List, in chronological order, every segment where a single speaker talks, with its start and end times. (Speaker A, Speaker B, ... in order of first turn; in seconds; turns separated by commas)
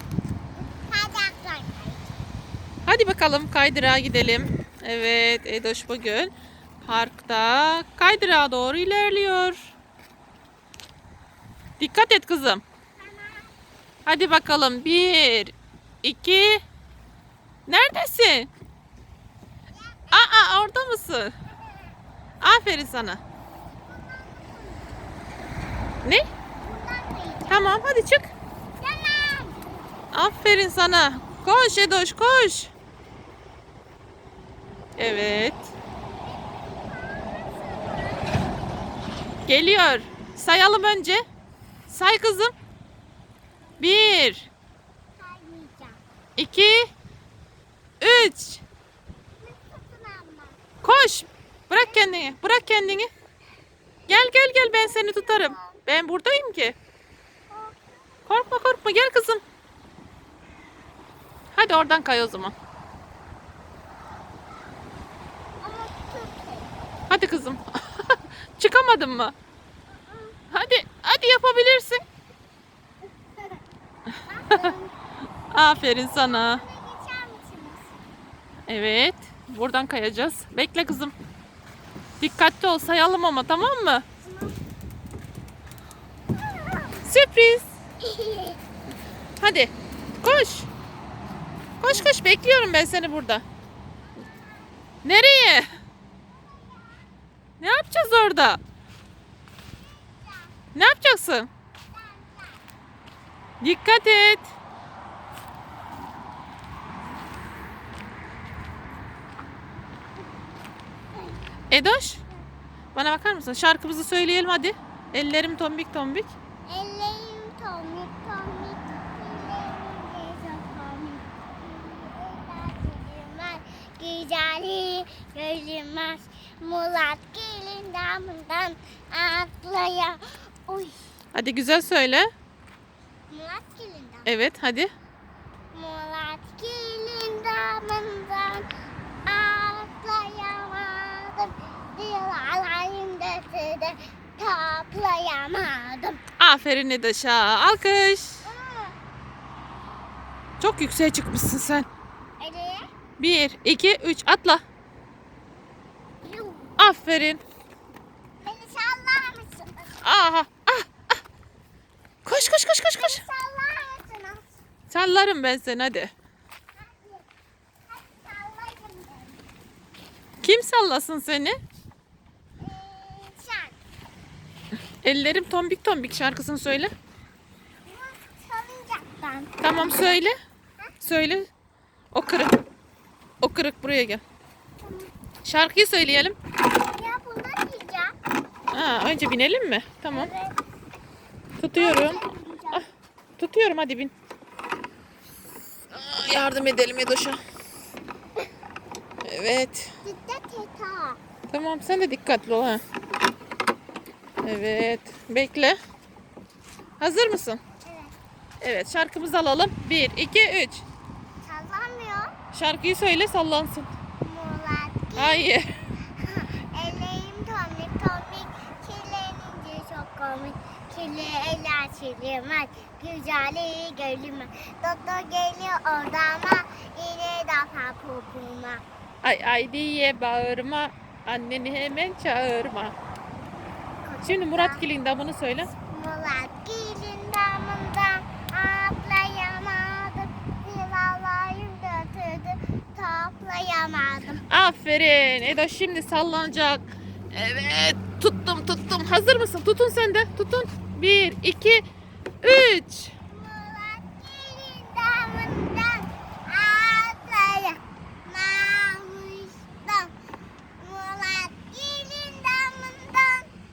Speaker A: 0.6-2.1, Speaker B: 2.9-6.3, Speaker B: 6.8-9.7, Speaker B: 11.8-12.6, Speaker A: 13.0-13.5, Speaker B: 14.1-16.6, Speaker B: 17.7-18.5, Speaker A: 19.7-20.5, Speaker B: 20.1-21.3, Speaker B: 22.4-23.2, Speaker A: 23.9-25.1, Speaker A: 26.6-27.7, Speaker B: 27.5-28.3, Speaker A: 28.8-29.7, Speaker B: 30.1-32.7, Speaker B: 35.0-35.7, Speaker A: 36.2-38.6, Speaker B: 39.5-41.2, Speaker B: 41.9-42.5, Speaker B: 43.8-44.5, Speaker A: 45.2-46.0, Speaker B: 46.4-46.9, Speaker B: 48.0-48.6, Speaker A: 49.4-50.6, Speaker B: 50.8-53.1, Speaker B: 54.1-56.7, Speaker A: 55.4-55.7, Speaker A: 57.5-57.9, Speaker B: 58.3-59.4, Speaker B: 61.5-62.5, Speaker A: 65.6-66.7, Speaker B: 67.1-69.3, Speaker A: 70.0-70.3, Speaker B: 70.5-72.0, Speaker A: 74.3-74.9, Speaker B: 75.5-76.6, Speaker A: 76.1-77.9, Speaker B: 78.7-81.1, Speaker B: 82.2-84.0, Speaker A: 84.2-84.6, Speaker A: 86.3-87.0, Speaker B: 87.0-87.6, Speaker A: 88.0-88.6, Speaker B: 89.4-90.7, Speaker B: 91.8-93.4, Speaker A: 94.1-94.7, Speaker B: 95.0-95.7, Speaker A: 96.3-97.1, Speaker B: 97.6-98.6, Speaker A: 99.7-100.5, Speaker B: 100.7-101.5, Speaker A: 101.9-102.6, Speaker B: 103.6-104.5, Speaker B: 111.7-112.2, Speaker B: 112.9-116.3, Speaker A: 116.7-131.0, Speaker B: 131.3-132.3, Speaker A: 133.3-134.3, Speaker B: 134.2-134.9, Speaker A: 135.7-138.6, Speaker A: 139.2-146.2, Speaker B: 146.4-148.4, Speaker A: 148.4-148.9, Speaker B: 150.6-151.9, Speaker A: 152.4-152.9, Speaker B: 153.2-154.6, Speaker A: 156.2-156.7, Speaker B: 156.8-157.4, Speaker A: 158.4-159.9, Speaker B: 160.0-161.0, Speaker B: 162.2-163.2, Speaker A: 162.4-164.4, Speaker B: 164.9-166.1, Speaker A: 166.8-167.2, Speaker A: 167.9-169.4, Speaker B: 170.4-171.6, Speaker A: 172.6-173.8, Speaker B: 175.0-176.9, Speaker A: 177.8-180.1, Speaker B: 179.6-180.3, Speaker B: 181.0-181.5, Speaker B: 182.1-182.5, Speaker B: 183.4-184.2, Speaker A: 184.8-185.1, Speaker B: 185.4-186.3, Speaker A: 186.7-188.1, Speaker B: 188.7-190.3, Speaker A: 190.1-190.6, Speaker B: 191.6-192.2, Speaker A: 191.8-192.8, Speaker B: 193.4-194.1, Speaker B: 195.9-197.4, Speaker B: 199.2-199.9, Speaker A: 200.0-201.2, Speaker B: 201.5-202.8, Speaker B: 204.4-205.8, Speaker B: 207.0-207.6, Speaker A: 207.8-208.1, Speaker B: 208.6-210.8, Speaker A: 211.4-212.3, Speaker B: 212.5-213.9, Speaker A: 214.2-215.5, Speaker B: 215.2-215.9, Speaker A: 216.1-228.8, Speaker B: 229.2-232.9, Speaker A: 234.0-234.8, Speaker B: 234.2-235.7, Speaker A: 235.8-244.4, Speaker B: 244.5-251.8, Speaker B: 252.4-253.1, Speaker A: 253.3-260.1, Speaker A: 260.8-263.5